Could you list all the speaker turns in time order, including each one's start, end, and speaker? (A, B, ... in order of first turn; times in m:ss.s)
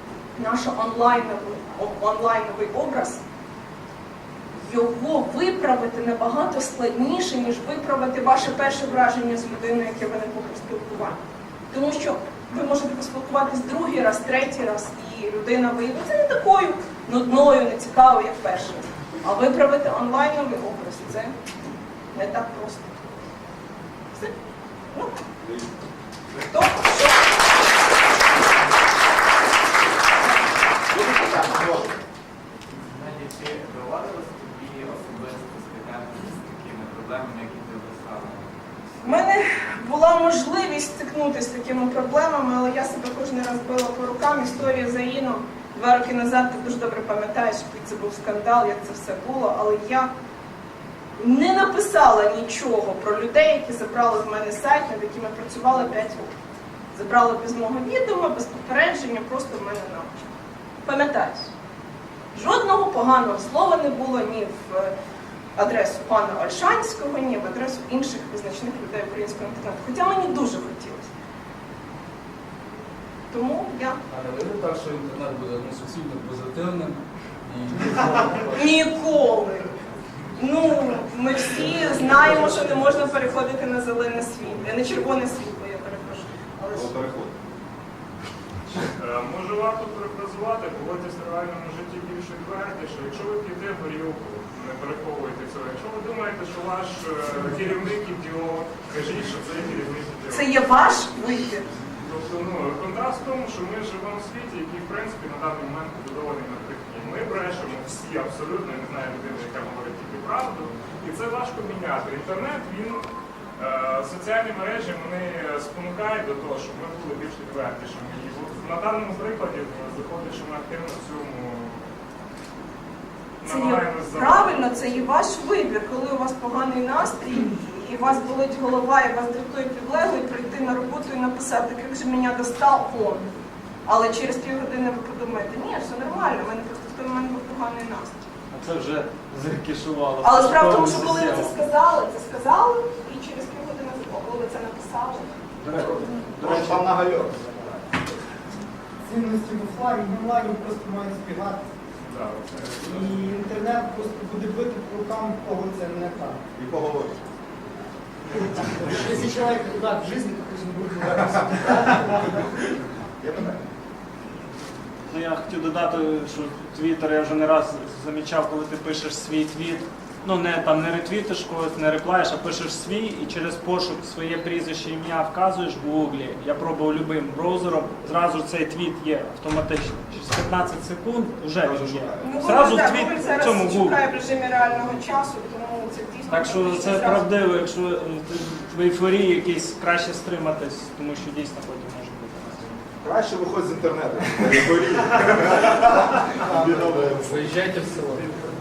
0:00.4-0:03.2 A
0:04.6-0:11.2 A
0:11.7-0:21.3 A
0:22.1-0:22.9 A
0:25.4-0:25.7 B
0:26.5-0:27.4 A
0:30.9-0:32.0 B
0:33.0-0:38.4 C
0:39.0-0:50.1 A
0:51.2-0:56.3 A
0:56.9-1:00.3 A
1:00.8-1:01.5 A
1:02.3-1:04.9 A
1:05.6-1:11.1 A
1:13.3-1:14.0 A
1:14.1-1:18.6 D
1:18.5-1:19.6 A
1:20.4-1:26.9 A
1:26.7-1:27.3 B
1:29.0-1:40.5 E
1:40.3-1:41.6 A
1:42.0-1:53.0 E
1:53.6-2:01.8 E
2:03.4-2:04.8 E
2:03.4-2:13.2 A
2:13.8-2:18.1 A
2:18.5-2:21.6 F
2:20.2-2:25.3 A
2:25.6-2:26.9 F
2:25.8-2:27.6 B
2:29.0-2:31.6 G
2:32.0-2:33.3 E
2:32.8-2:36.4 G
2:36.6-2:37.2 B
2:38.3-2:42.2 G
2:43.2-2:43.6 B
2:45.1-3:04.0 F
3:01.6-3:02.4 B
3:02.2-3:07.3 A
3:06.3-3:12.7 F
3:13.0-3:17.4 B
3:17.2-3:18.3 D